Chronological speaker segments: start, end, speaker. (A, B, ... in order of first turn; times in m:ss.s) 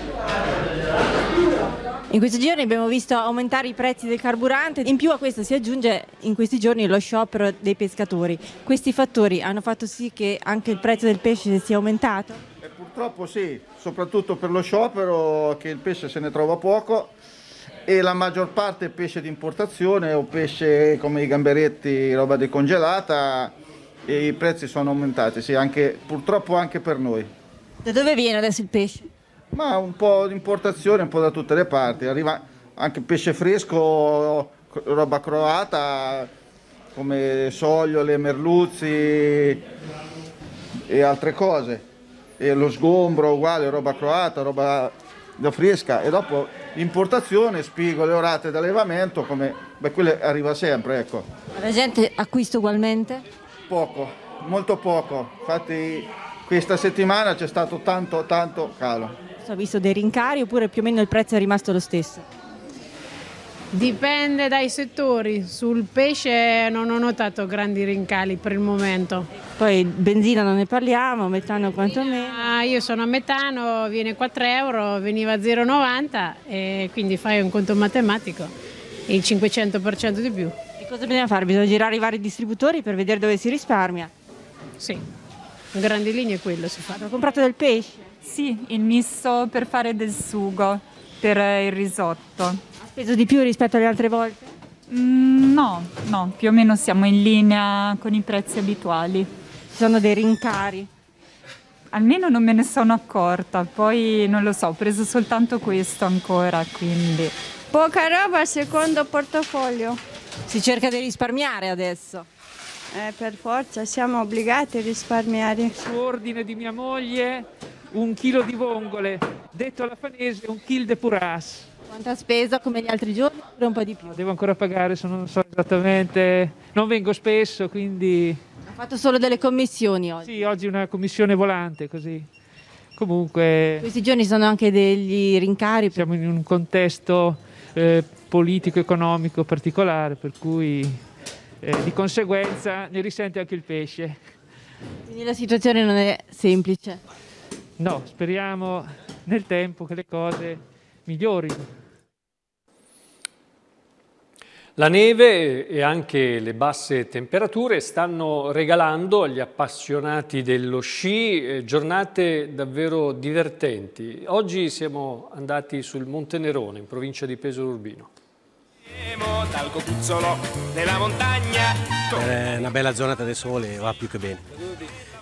0:02.1-0:12.4 A
0:12.6-0:17.1 B
0:17.8-0:27.3 B
0:27.8-0:29.1 A
0:29.5-0:36.3 B
0:36.9-0:39.6 B
0:40.9-0:41.8 B
0:42.4-0:51.3 B
0:51.5-0:53.2 A
0:53.7-0:59.2 B
0:59.4-1:02.2 A
1:03.7-1:09.3 C
1:09.6-1:12.4 A
1:12.3-1:18.5 C
1:19.1-1:20.5 C
1:20.8-1:24.1 A
1:24.8-1:25.0 C
1:25.7-1:27.0 C
1:26.9-1:28.1 A
1:28.2-1:32.6 D
1:32.8-1:34.5 A
1:34.9-1:39.3 D
1:39.7-1:40.9 A
1:41.9-1:47.3 D
1:47.7-1:50.0 E
1:50.5-1:52.2 A
1:52.9-1:55.7 E
1:55.8-2:01.7 F
2:01.9-2:04.1 A
2:04.0-2:08.4 F
2:08.7-2:10.3 A
2:10.2-2:12.3 F
2:13.0-2:13.8 F
2:13.8-2:16.0 A
2:15.9-2:21.0 F
2:21.6-2:24.2 F
2:25.0-2:27.0 A
2:27.8-2:31.7 F
2:34.8-2:48.1 G
2:48.9-2:52.3 H
2:52.1-2:54.4 I